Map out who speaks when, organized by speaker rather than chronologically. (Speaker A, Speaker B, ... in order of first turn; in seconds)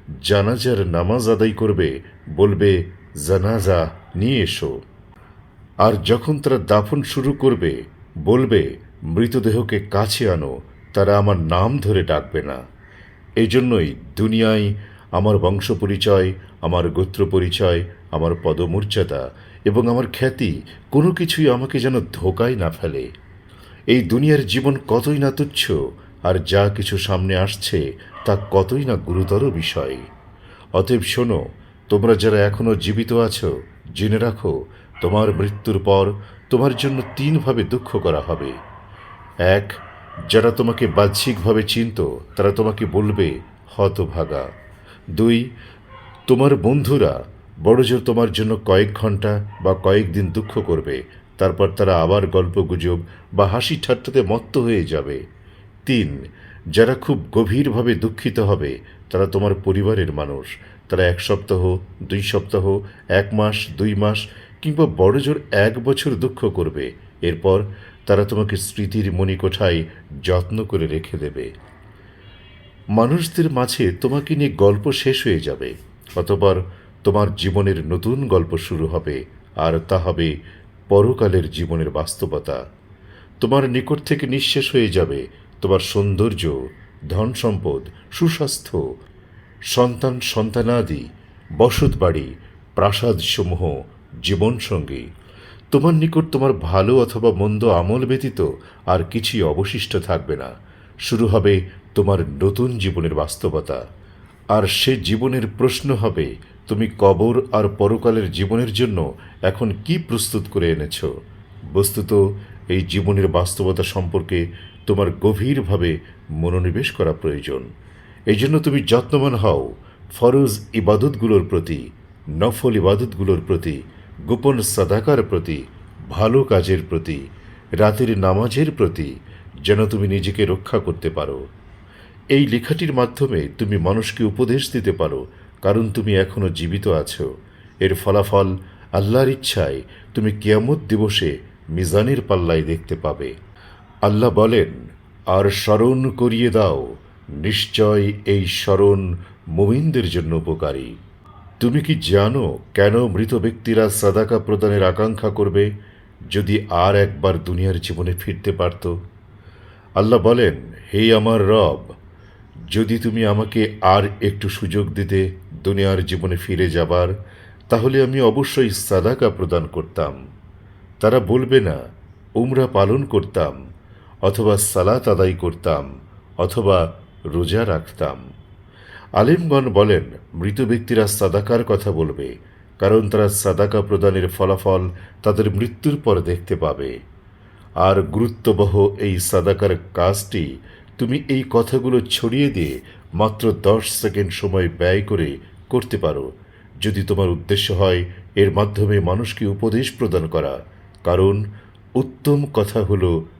Speaker A: 0.2-4.7, 5.8-12.6, 13.4-23.1, 23.9-30.1, 30.7-38.6, 39.5-44.5, 45.1-45.5, 46.3-55.2, 55.9-56.2, 56.7-71.5, 73.0-80.3, 80.9-82.6, 83.4-88.8, 89.7-95.1, 95.7-100.5, 101.0-103.8, 104.5-111.1, 111.7-117.7, 118.3-121.8, 122.4-127.2, 127.8-129.1, 129.7-131.4, 132.3-137.3, 137.8-143.3, 144.0-144.8, 145.3-150.9, 151.6-155.7, 156.3-159.0, 160.0-161.9, 162.7-167.1, 167.7-170.2, 171.0-171.8, 172.4-173.6, 174.2-175.9, 176.4-178.2, 179.2-186.9, 187.8-196.3, 196.8-201.4, 202.0-203.2